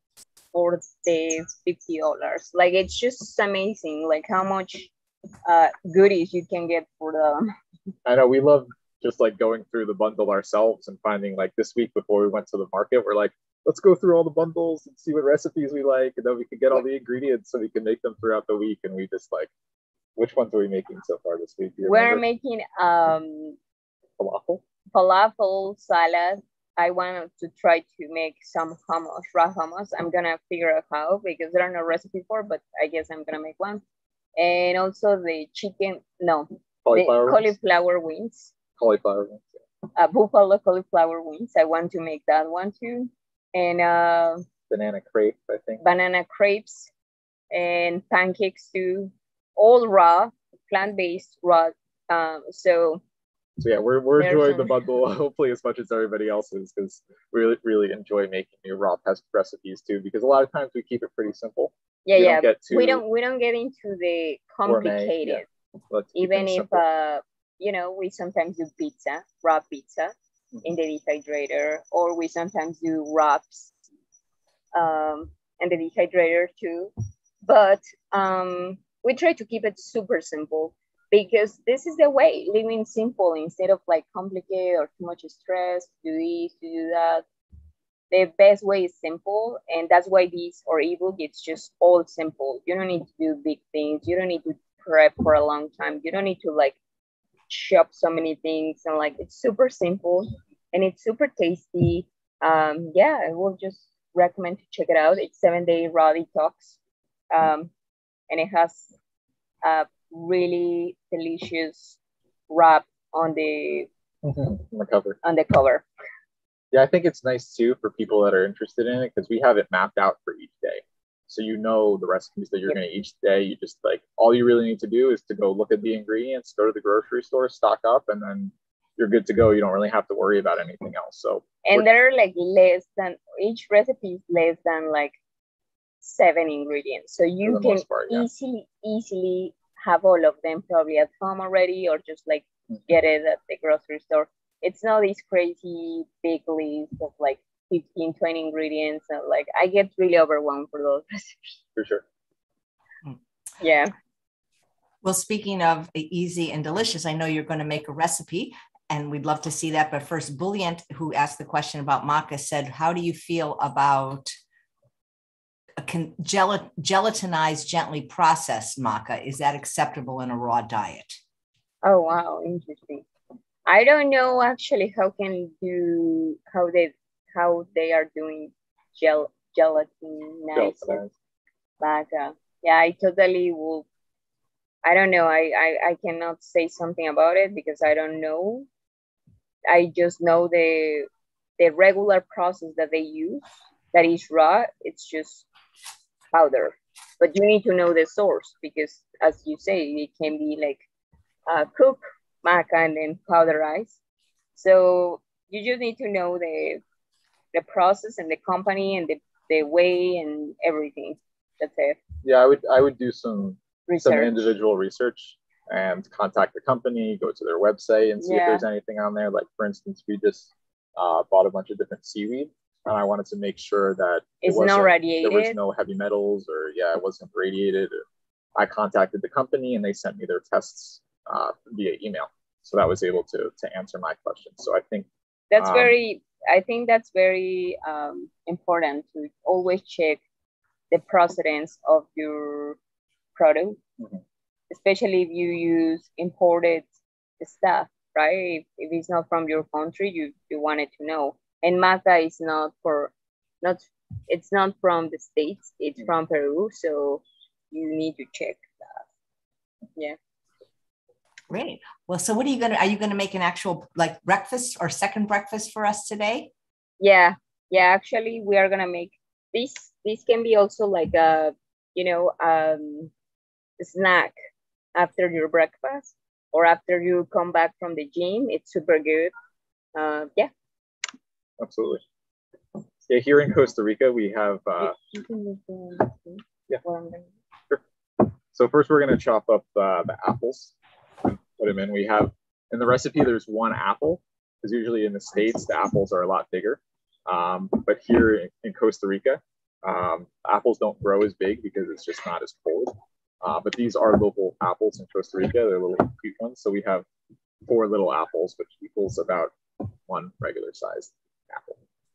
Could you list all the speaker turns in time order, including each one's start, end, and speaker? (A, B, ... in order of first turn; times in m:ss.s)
0:00.5-0:04.9 A
0:05.4-0:07.5 A
0:08.0-0:19.5 B
0:20.2-0:22.2 B
0:21.8-0:23.6 A
0:24.2-0:24.6 B
0:24.9-0:33.8 A
0:34.4-0:38.5 A
0:36.8-0:37.6 B
0:38.8-0:39.6 B
0:39.9-0:44.4 A
0:44.7-0:45.8 B
0:45.8-0:46.9 A
0:47.5-0:53.0 A
0:53.6-1:03.0 B
0:54.2-0:54.8 A
1:02.0-1:05.5 A
1:04.6-1:06.8 B
1:06.1-1:13.7 A
1:14.7-1:16.9 A
1:17.4-1:27.2 A
1:28.1-1:36.8 A
1:37.5-1:46.8 A
1:47.3-1:47.7 A
1:48.3-1:48.9 A
1:49.6-1:52.0 A
1:52.5-1:53.9 A
1:54.2-1:55.2 B
1:55.2-1:55.8 A
1:56.7-2:11.8 B
2:11.6-2:15.2 A
2:16.0-2:31.6 A
2:17.4-2:18.3 B
2:31.8-2:32.0 B
2:33.6-2:33.9 A
2:35.0-2:44.3 C
2:45.8-2:51.2 C
2:51.8-2:53.0 A
2:53.7-3:01.0 A
3:00.5-3:01.1 B
3:01.8-3:03.8 A
3:04.8-3:08.7 A
3:09.7-3:11.1 A
3:11.6-3:15.5 A
3:16.3-3:20.8 A
3:21.5-3:24.0 A
3:24.6-3:26.8 A
3:27.5-3:32.0 A
3:32.2-3:48.0 B
3:33.9-3:34.5 A
3:38.2-3:38.6 A
3:44.4-3:45.6 A
3:48.6-3:55.9 B
3:55.5-4:00.2 A
4:00.9-4:02.8 A
4:03.4-4:03.8 A
4:04.7-4:06.8 A
4:07.4-4:19.0 A
4:21.5-4:26.5 C
4:27.0-4:33.1 A
4:33.8-4:34.3 A
4:34.9-4:39.3 A
4:40.0-4:40.5 A
4:41.6-4:42.0 B
4:43.1-4:45.0 B
4:44.8-4:47.3 A
4:47.7-5:07.0 B
5:07.6-5:11.8 B